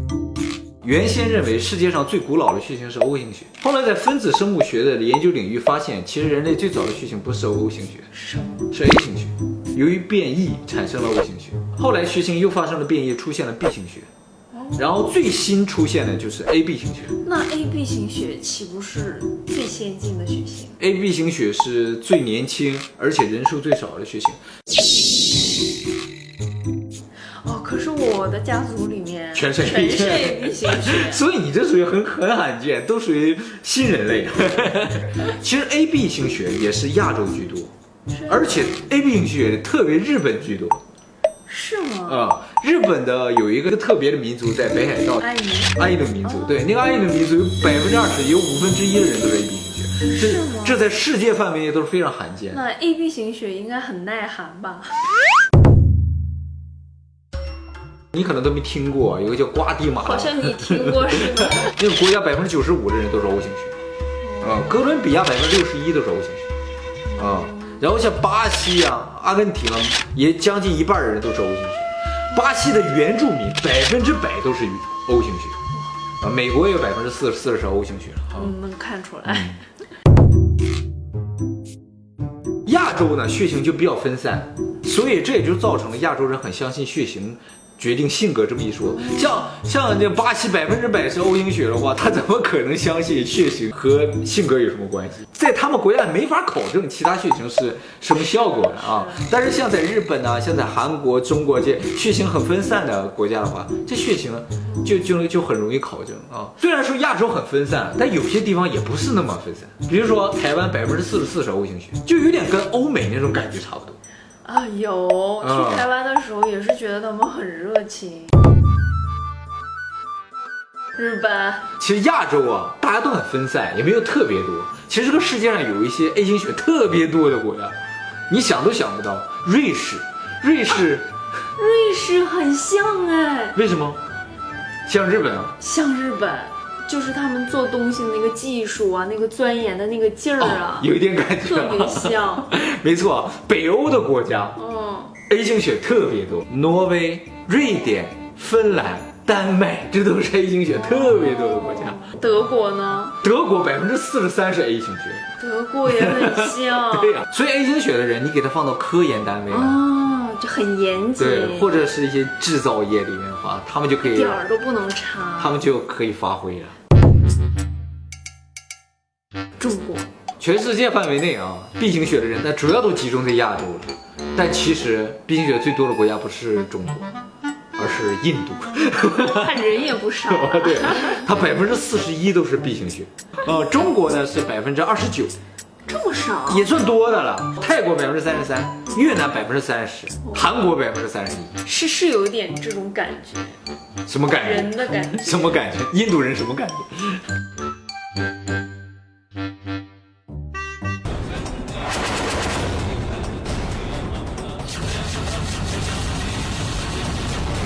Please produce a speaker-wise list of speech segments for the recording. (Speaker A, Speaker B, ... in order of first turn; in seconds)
Speaker A: 0.8-8.1, 8.7-14.1, 14.8-17.2, 20.8-24.4, 29.3-37.7, 38.3-40.8, 42.1-45.2, 45.8-52.6, 58.1-63.7, 64.4-66.5, 67.2-75.6, 76.2-78.5, 79.3-79.6, 82.7-114.0, 115.4-115.8, 121.8-127.7, 128.3-131.1, 133.5-134.0, 134.9-135.5, 140.4-144.6, 145.3-152.1, 153.2-155.3, 155.9-159.8, 161.2-164.4, 165.4-166.7, 170.4-177.1, 177.8-179.5, 180.3-185.3, 186.5-191.6, 194.1-197.2
Speaker B: 8.1-8.7, 14.5-14.8, 17.2-20.8, 27.4-31.2, 38.1-38.7, 41.5-42.2, 45.2-46.6, 50.0-50.9, 52.5-55.0, 60.0-61.8, 64.2-65.0, 67.1-67.8, 78.3-79.6, 98.4-99.3, 114.4-118.3, 121.0-121.7, 131.6-133.6, 135.6-142.5, 144.6-145.2, 151.1-153.2, 155.4-157.2, 159.5-161.8, 164.0-165.6, 169.6-170.1, 178.9-181.2, 185.8-186.7, 191.6-193.6, 194.3-195.7